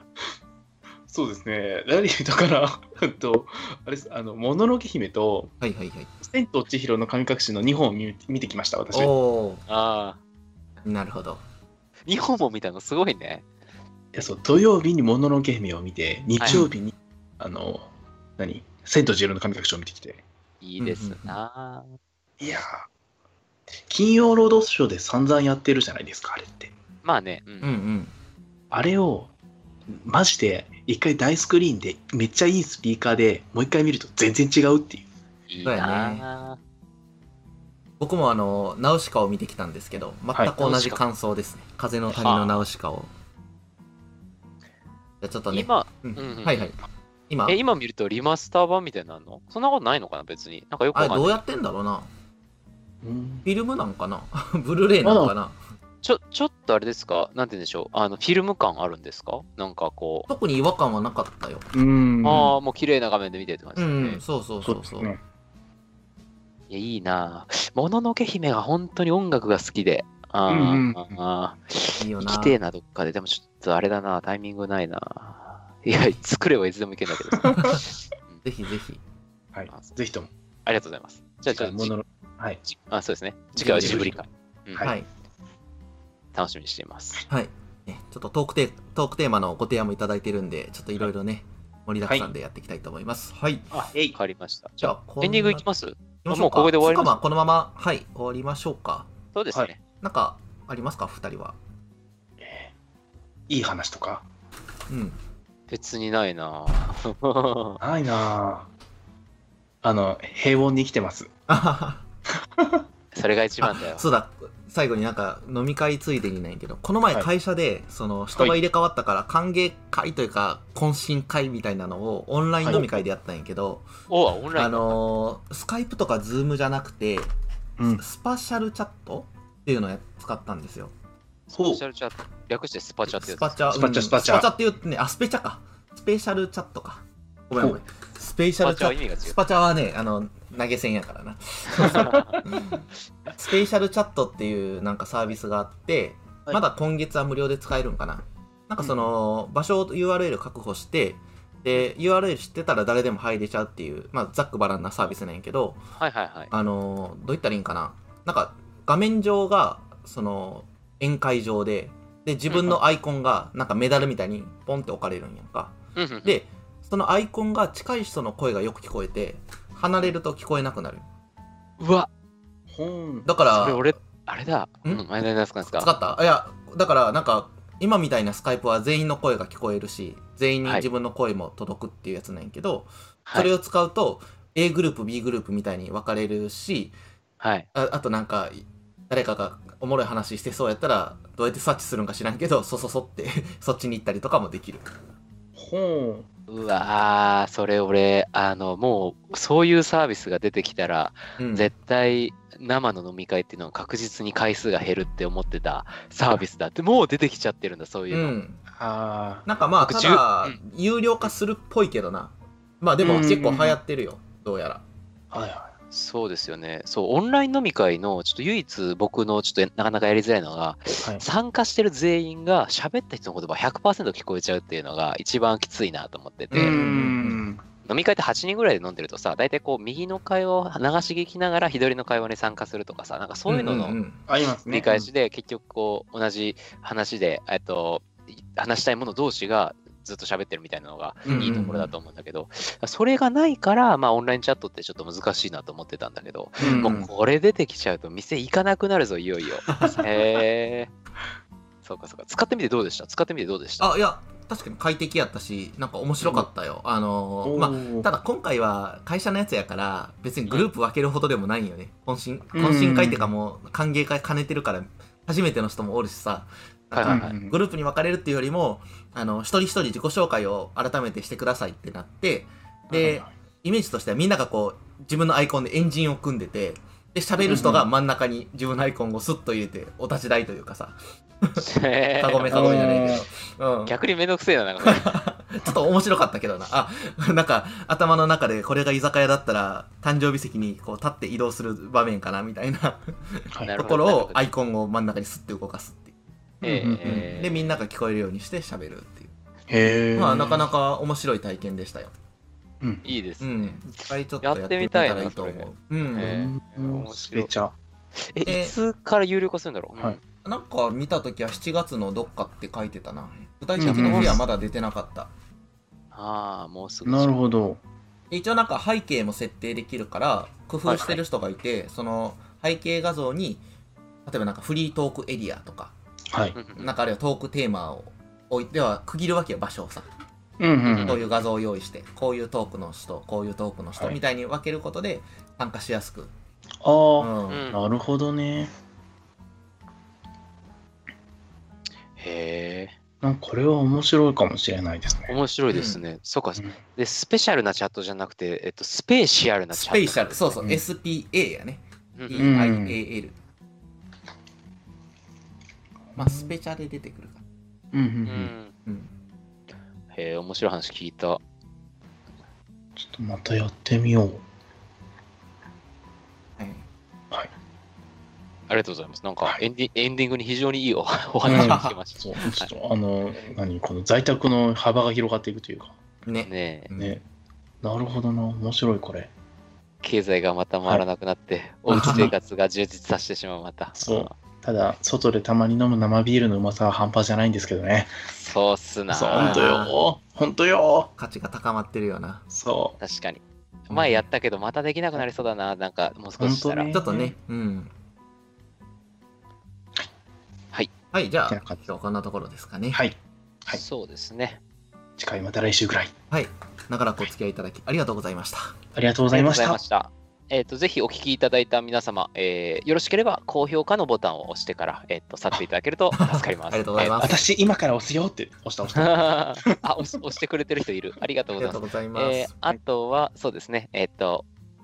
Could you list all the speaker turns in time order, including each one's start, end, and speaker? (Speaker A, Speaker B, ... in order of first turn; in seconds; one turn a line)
Speaker A: 1.1-5.5
Speaker B: 5.6-6.1
Speaker A: 6.2-9.1
Speaker B: 8.9-9.6
Speaker C: 9.7-10.2
Speaker B: 10.8-11.4
Speaker C: 12.1-13.4
Speaker A: 14.1-17.9
Speaker C: 16.4-16.6
Speaker A: 18.4-20.2
Speaker C: 20.6-21.9
Speaker B: 20.8-21.4
Speaker A: 22.4-22.9
Speaker A: 23.9-26.7
Speaker C: 27.0-27.7
Speaker B: 27.6-28.1
Speaker A: 28.7-29.3
Speaker A: 29.9-35.0
Speaker C: 35.5-36.6
Speaker B: 35.6-36.3
Speaker B: 38.0-43.1
Speaker C: 40.6-41.0
Speaker C: 42.1-42.6
Speaker B: 45.2-46.8
Speaker C: 45.5-46.7
Speaker B: 47.3-47.6
Speaker C: 47.5-51.4
Speaker B: 50.9-52.1
Speaker A: 53.0-53.5
Speaker B: 53.5-55.6
Speaker A: 55.0-55.3
Speaker C: 56.0-60.3
Speaker B: 60.3-61.7
Speaker A: 61.7-62.5
Speaker C: 62.2-64.2
Speaker B: 63.8-65.1
Speaker A: 64.6-65.2
Speaker C: 66.7-77.7
Speaker A: 70.5-71.2
Speaker B: 72.0-72.6
Speaker A: 77.3-77.6
Speaker B: 78.4-79.0
Speaker A: 79.5-80.3
Speaker C: 80.7-81.9
Speaker A: 81.5-82.6
Speaker C: 82.7-84.9
Speaker A: 83.6-84.2
Speaker B: 84.8-85.1
Speaker C: 86.3-87.2
Speaker B: 87.3-93.7
Speaker A: 92.0-92.3
Speaker A: 93.7-94.2
Speaker C: 93.8-97.2
Speaker B: 94.8-95.7
Speaker B: 96.2-99.1
Speaker C: 99.3-99.8
Speaker B: 100.0-101.6
Speaker A: 102.4-102.7
Speaker A: 103.5-104.2
Speaker B: 104.9-105.2
Speaker C: 105.7-107.8
Speaker A: 107.8-108.7
Speaker A: 109.8-111.3
Speaker B: 111.5-112.0
Speaker A: 112.6-112.8
Speaker C: 113.1-114.0
Speaker B: 113.6-123.9
Speaker A: 122.6-122.9
Speaker C: 124.1-125.0
Speaker B: 124.5-127.3
Speaker A: 127.8-128.0
Speaker B: 128.0-130.9
Speaker C: 131.5-133.8
Speaker A: 131.6-131.8
Speaker B: 133.1-155.8
Speaker A: 133.7-134.5
Speaker C: 138.6-139.4
Speaker C: 141.7-142.4
Speaker C: 156.0-156.5
Speaker B: 156.5-171.1
Speaker C: 162.5-162.8
Speaker C: 166.0-166.4
Speaker C: 171.8-172.1
Speaker A: 172.7-173.3
Speaker B: 173.3-173.9
Speaker C: 173.5-175.9
Speaker B: 175.8-186.9
Speaker C: 183.3-183.5
Speaker C: 187.4-187.7
Speaker B: 187.8-194.9
Speaker A: 195.6-196.3
Speaker C: 196.5-208.4
Speaker B: 201.4-201.7
Speaker B: 208.1-208.6
Speaker A: 208.7-209.5
Speaker B: 209.5-214.8
Speaker C: 209.8-210.6
Speaker A: 213.0-213.8
Speaker A: 215.3-215.7
Speaker C: 215.9-226.9
Speaker B: 226.5-227.4
Speaker A: 226.5-227.6
Speaker C: 227.8-234.0
Speaker B: 233.5-234.2
Speaker A: 234.3-234.9
Speaker C: 234.7-250.9
Speaker A: 241.3-241.7
Speaker B: 241.3-241.9
Speaker A: 246.6-247.1
Speaker B: 246.6-246.9
Speaker B: 249.7-250.1
Speaker A: 249.7-250.1
Speaker C: 251.8-253.9
Speaker B: 253.8-281.6
Speaker A: 257.4-258.1
Speaker A: 262.5-263.3
Speaker C: 266.9-267.3
Speaker A: 267.1-267.6
Speaker A: 272.9-273.3
Speaker A: 277.4-277.9
Speaker C: 281.6-283.1
Speaker B: 282.2-284.0
Speaker A: 282.5-283.2
Speaker C: 283.9-285.1
Speaker B: 284.8-296.1
Speaker C: 293.6-294.4
Speaker A: 296.6-297.2
Speaker C: 296.6-297.8
Speaker B: 297.0-299.3
Speaker A: 299.7-300.7
Speaker B: 300.1-302.1
Speaker C: 303.0-303.8
Speaker B: 303.4-306.4
Speaker C: 304.4-307.5
Speaker A: 306.2-307.8
Speaker C: 308.3-310.2
Speaker B: 308.4-308.8
Speaker B: 310.4-315.3
Speaker A: 313.8-314.4
Speaker C: 316.1-317.4
Speaker A: 317.1-317.8
Speaker B: 318.3-323.6
Speaker A: 320.9-321.2
Speaker B: 324.2-325.9
Speaker A: 326.3-326.6
Speaker C: 326.6-326.9
Speaker B: 326.8-330.1
Speaker A: 330.6-331.2
Speaker C: 330.9-331.2
Speaker B: 331.1-336.3
Speaker A: 336.8-338.7
Speaker B: 337.2-337.6
Speaker C: 337.5-337.8
Speaker C: 342.2-342.9
Speaker A: 343.2-345.4
Speaker C: 345.3-350.5
Speaker B: 345.7-346.0
Speaker B: 349.7-353.4
Speaker C: 352.2-352.5
Speaker A: 352.4-353.0
Speaker A: 356.1-356.5
Speaker B: 356.1-357.4
Speaker A: 357.9-358.5
Speaker C: 358.3-358.7
Speaker B: 358.9-359.1
Speaker C: 360.1-361.4
Speaker A: 363.0-364.4
Speaker B: 366.6-366.9
Speaker C: 368.7-372.7
Speaker A: 371.4-376.0
Speaker B: 371.5-372.0
Speaker B: 376.2-377.2
Speaker C: 376.5-376.9
Speaker A: 377.8-379.3
Speaker C: 380.0-384.3
Speaker B: 381.9-382.3
Speaker A: 381.9-382.3
Speaker A: 384.0-388.1
Speaker C: 388.3-389.7
Speaker A: 389.1-391.1
Speaker B: 389.3-390.0
Speaker B: 391.2-392.4
Speaker A: 392.5-393.0
Speaker C: 393.0-396.9
Speaker B: 393.9-394.2
Speaker A: 396.4-397.4
Speaker B: 396.9-397.9
Speaker B: 401.1-403.0
Speaker A: 401.5-401.8
Speaker A: 402.9-403.8
Speaker C: 403.7-404.6
Speaker A: 405.2-406.1
Speaker B: 406.3-408.8
Speaker A: 408.9-409.8
Speaker C: 409.3-417.3
Speaker B: 416.1-417.4
Speaker A: 417.2-420.2
Speaker C: 418.9-424.5
Speaker B: 421.6-422.8